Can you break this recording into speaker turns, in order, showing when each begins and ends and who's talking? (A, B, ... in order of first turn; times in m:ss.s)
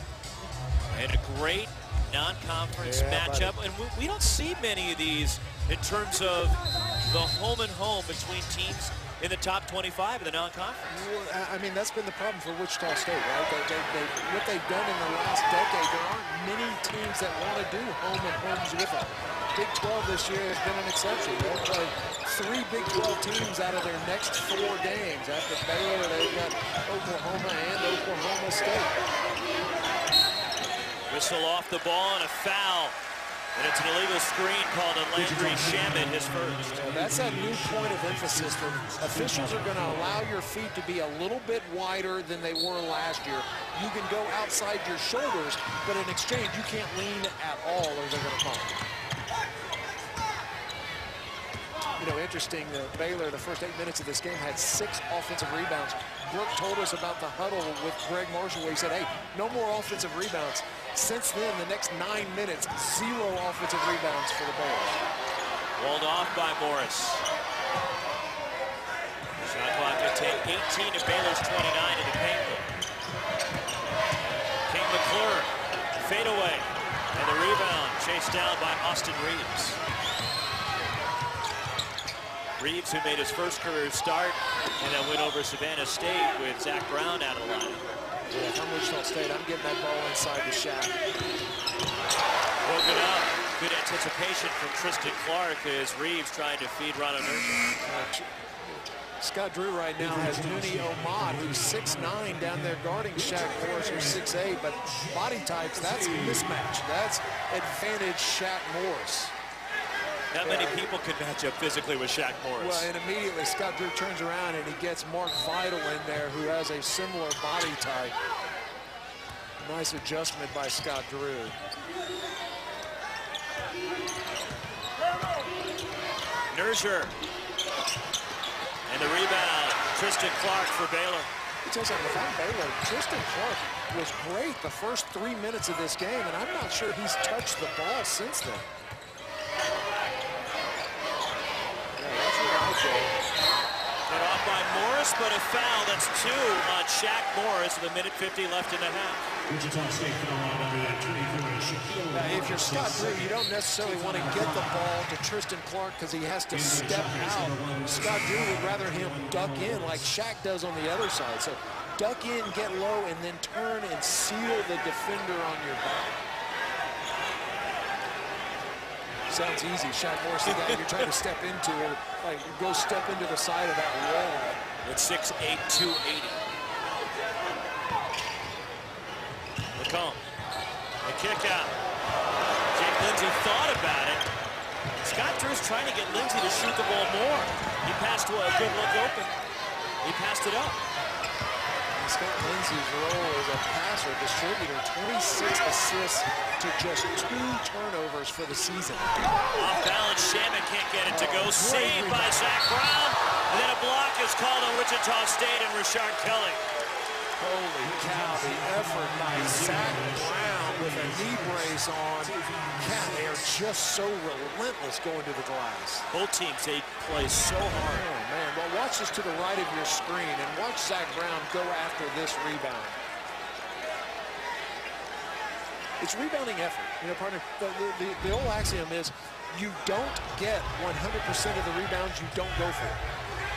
0:00.9-0:11.0 A
0:02.8-0:03.6 B
0:10.9-0:29.0 B
0:31.1-0:33.0 A
0:33.6-0:36.8 A
0:35.2-0:40.0 C
0:36.7-0:48.8 B
0:52.0-1:05.0 B
1:05.8-1:07.2 A
1:09.4-1:12.7 A
1:14.7-1:19.8 A
1:22.6-1:27.8 A
1:28.3-1:31.0 B
1:32.6-1:37.6 A
1:37.8-1:49.4 B
1:40.2-1:41.5 C
1:46.0-1:46.4 C
1:50.3-1:52.9 A
1:50.4-1:50.9 B
1:52.6-1:58.2 B
1:59.6-2:01.6 B
2:06.5-2:07.2 A
2:08.9-2:11.3 A
2:11.6-2:18.7 B
2:22.0-2:23.2 B
2:24.1-2:29.3 A
2:29.5-2:34.8 C
2:32.1-2:46.2 B
2:36.5-2:40.1 C
2:49.3-2:54.6 B
2:50.5-2:51.1 A
2:54.8-2:56.4 A
2:59.8-3:00.2 A
3:01.0-3:01.8 A
3:02.7-3:04.3 A
3:05.0-3:09.4 A
3:10.0-3:10.8 A
3:12.0-3:19.2 B
3:19.6-3:26.6 A
3:21.1-3:22.4 B
3:27.4-3:36.1 B
3:27.9-3:33.5 C
3:36.1-3:38.0 A
3:37.8-3:43.0 B
3:46.0-3:53.0 B